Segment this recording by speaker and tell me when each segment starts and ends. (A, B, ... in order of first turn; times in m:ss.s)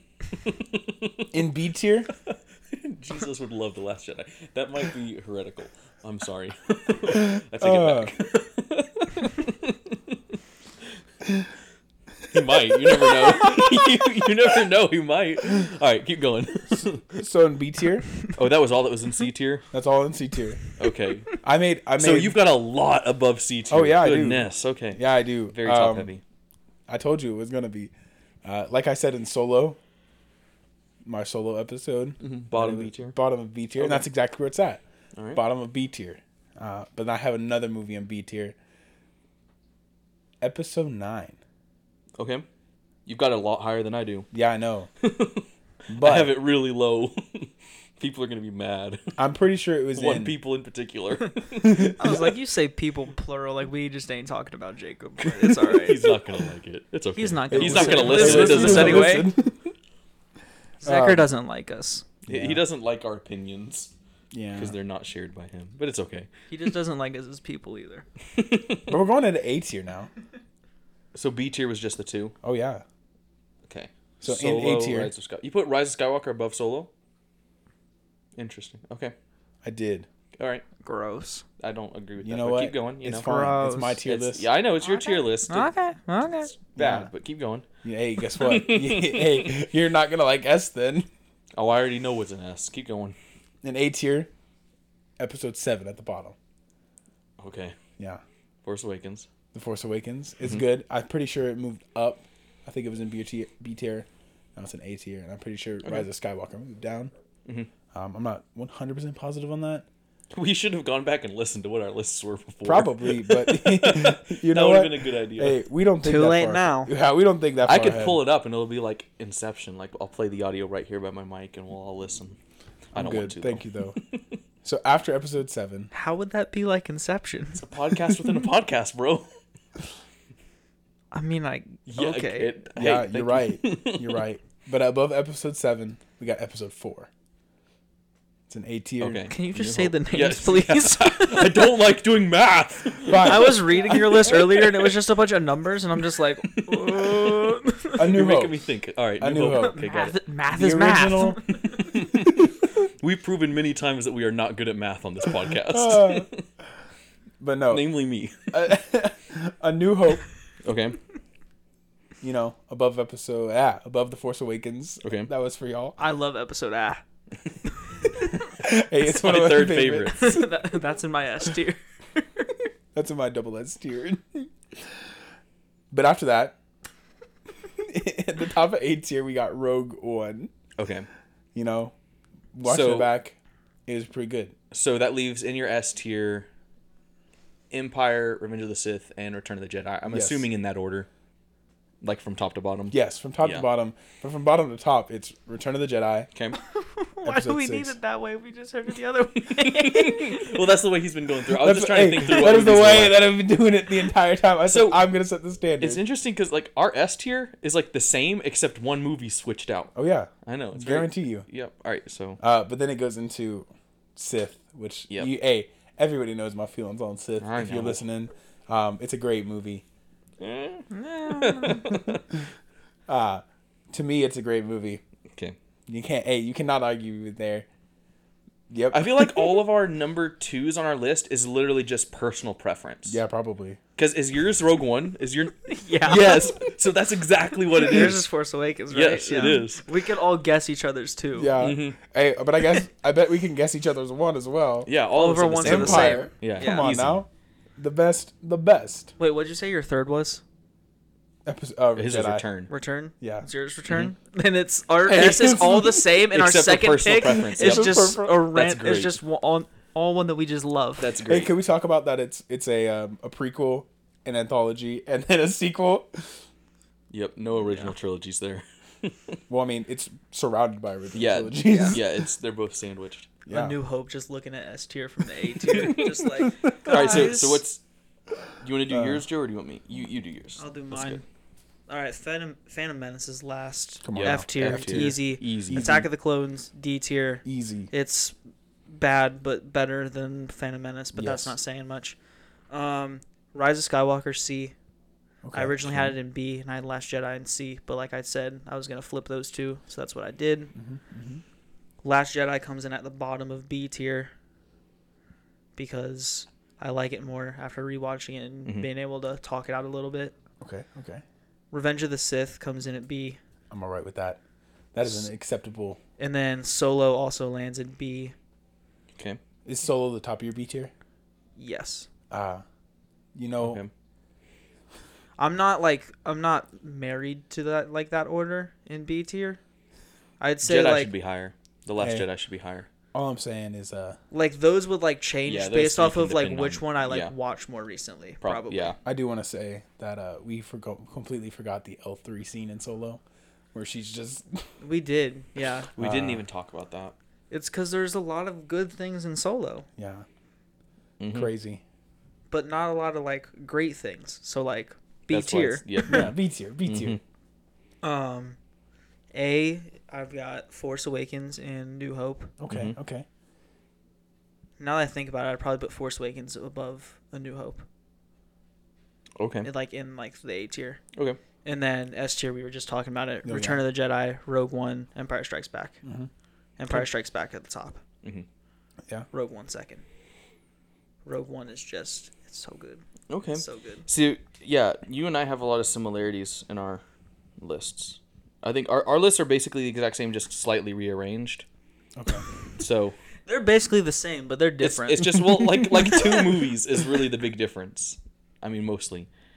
0:00.3-0:01.3 A
0:01.3-0:02.1 B
0:02.2-0:10.2 A
0:07.1-0:08.1 B
0:11.2-0:11.5 B
0:12.3-0:17.2 A
0:12.7-0:13.6 B
0:17.2-0:18.1 B
0:18.3-0:19.6 A
0:19.7-0:20.6 B
0:20.8-0:21.4 A
0:21.4-0:22.4 B
0:22.0-0:26.2 A
0:23.7-0:26.1 B
0:26.9-0:27.9 B
0:28.4-0:29.8 B
0:31.0-0:34.8 B
0:32.2-0:33.2 A
0:33.8-0:34.0 A
0:35.2-0:35.4 A
0:35.3-0:38.6 B
0:40.4-0:41.4 B
0:42.2-0:42.4 A
0:43.1-0:44.3 A
0:44.3-0:44.9 B
0:45.0-0:49.2 A
0:45.9-0:46.4 B
0:49.2-0:50.3 B
0:50.0-0:52.0 A
0:51.6-0:52.3 B
0:51.8-0:56.1 C
0:55.6-0:59.3 A
0:57.2-0:59.3 C
0:57.5-0:59.7 B
1:00.8-1:01.3 B
1:00.8-1:02.1 C
1:02.2-1:02.6 B
1:02.3-1:03.9 A
1:04.3-1:04.8 B
1:04.6-1:06.3 A
1:06.5-1:08.1 C
1:08.3-1:09.0 A
1:08.9-1:10.1 B
1:11.1-1:12.3 A
1:12.4-1:12.8 B
1:13.7-1:16.9 A
1:14.2-1:15.1 B
1:18.4-1:19.2 A
1:19.6-1:20.1 B
1:20.4-1:20.6 A
1:20.8-1:21.4 C
1:21.6-1:23.3 A
1:22.2-1:24.5 B
1:23.2-1:24.0 C
1:24.0-1:25.7 A
1:24.8-1:26.5 C
1:26.5-1:27.7 A
1:26.8-1:27.1 B
1:27.8-1:31.1 B
1:28.4-1:29.6 A
1:31.6-1:33.2 A
1:33.6-1:34.3 B
1:35.2-1:36.4 B
1:37.4-1:37.8 A
1:38.6-1:39.3 A
1:39.5-1:47.1 B
1:47.9-1:49.9 B
1:50.3-1:55.6 A
1:52.6-1:58.2 B
1:56.0-1:56.9 C
1:57.7-2:02.4 A
2:02.9-2:04.2 A
2:02.9-2:04.0 B
2:04.6-2:05.9 B
2:05.9-2:07.7 C
2:07.6-2:09.3 A
2:11.1-2:12.5 C
2:11.9-2:14.2 A
2:12.8-2:17.1 B
2:18.5-2:19.2 B
2:19.0-2:24.9 A
2:19.3-2:21.8 C
2:23.0-2:24.6 B
2:23.2-2:28.0 C
2:26.4-2:30.2 A
2:28.0-2:28.6 B
2:29.2-2:29.8 B
2:29.6-2:32.0 C
2:30.5-2:31.4 B
2:31.9-2:36.4 A
2:35.6-2:36.3 B
2:37.4-2:37.9 B
2:37.7-2:38.5 A
2:38.5-2:40.2 B
2:40.6-2:41.0 A
2:42.2-2:46.0 B
2:45.0-2:45.3 A
2:46.0-2:47.0 C
2:48.0-2:48.4 C
2:48.3-2:50.5 B
2:49.0-2:50.4 A
2:50.1-2:52.5 C
2:52.9-2:55.1 B
2:55.9-2:56.6 B
2:57.8-3:00.5 B
3:00.8-3:01.1 A
3:01.6-3:01.9 B
3:02.5-3:03.4 B
3:02.6-3:03.1 A
3:03.9-3:04.6 B
3:04.7-3:06.5 A
3:07.7-3:11.1 A
3:10.1-3:10.5 B
3:12.0-3:13.7 A
3:12.9-3:16.3 B
3:16.7-3:20.6 C
3:17.2-3:18.0 B
3:19.5-3:23.3 A
3:21.5-3:26.0 B
3:24.7-3:25.0 A
3:25.8-3:29.9 A
3:29.9-3:31.5 B
3:30.4-3:32.4 A
3:32.4-3:39.8 B
3:37.4-3:38.0 A
3:40.4-3:42.2 A
3:40.9-3:42.0 C
3:43.1-3:45.0 B
3:45.9-3:47.7 B
3:48.7-3:49.6 B
3:48.9-3:53.2 A
3:53.1-3:53.8 B
3:54.0-3:58.2 A
3:55.7-3:56.7 C
3:57.7-4:01.6 C
3:58.9-3:59.9 A
4:01.4-4:04.9 B
4:01.6-4:02.0 A
4:04.9-4:07.2 A
4:05.1-4:07.0 C
4:05.6-4:09.1 B
4:09.2-4:10.4 C
4:11.4-4:12.4 B
4:12.0-4:12.7 A
4:12.7-4:21.1 C
4:13.2-4:13.4 B
4:15.1-4:16.0 B
4:16.3-4:19.2 A
4:17.2-4:18.4 B
4:21.0-4:21.5 A
4:21.2-4:26.4 B
4:27.1-4:29.4 A
4:27.6-4:27.9 C
4:29.5-4:32.2 B
4:31.1-4:33.3 A
4:31.6-4:32.0 C
4:33.5-4:33.8 B
4:33.5-4:37.6 C
4:35.7-4:37.4 B
4:36.9-4:37.8 A
4:38.6-4:41.2 A
4:38.9-4:39.2 B
4:40.6-4:41.2 C
4:41.9-4:48.4 C
4:44.0-4:46.1 B
4:44.1-4:45.9 A
4:47.4-4:47.9 B
4:48.9-4:52.2 C
4:51.1-4:51.6 B
4:52.7-4:54.7 C
4:55.4-4:56.1 B
4:55.5-5:00.7 C
5:00.8-5:01.4 B
5:02.0-5:04.3 C
5:05.8-5:10.4 C
5:10.6-5:11.2 B
5:11.7-5:13.4 C
5:13.7-5:14.4 B
5:14.9-5:16.0 B
5:16.2-5:18.4 C
5:19.6-5:20.9 B
5:21.6-5:22.1 C
5:22.3-5:22.6 B
5:23.4-5:23.8 B
5:23.6-5:23.9 A
5:25.4-5:29.6 C
5:30.4-5:31.1 C
5:30.6-5:32.9 A
5:32.0-5:32.3 B
5:33.1-5:34.2 B
5:34.3-5:39.0 C
5:35.4-5:37.3 A
5:38.4-5:39.0 A
5:39.0-5:43.2 B
5:43.7-5:44.6 B
5:44.8-5:45.9 C
5:46.0-5:47.1 A
5:46.0-5:46.4 B
5:47.5-5:49.9 C
5:50.0-5:50.2 B
5:51.2-5:51.5 A
5:51.3-5:51.8 B
5:52.5-5:56.2 C
5:55.3-5:57.2 A
5:56.1-5:57.2 B
5:58.0-5:58.6 C
5:59.3-6:02.5 C
6:02.6-6:03.2 B
6:02.7-6:03.0 A
6:04.8-6:07.9 C
6:09.4-6:09.7 A
6:09.6-6:11.0 C
6:11.1-6:11.4 A
6:11.6-6:16.0 C
6:13.4-6:13.8 B
6:16.0-6:16.3 B
6:16.8-6:18.0 C
6:19.3-6:20.0 C
6:21.2-6:24.1 C
6:23.3-6:27.0 A
6:27.6-6:31.6 A
6:32.2-6:32.4 B
6:32.8-6:33.2 A
6:33.5-6:36.5 C
6:34.8-6:39.3 A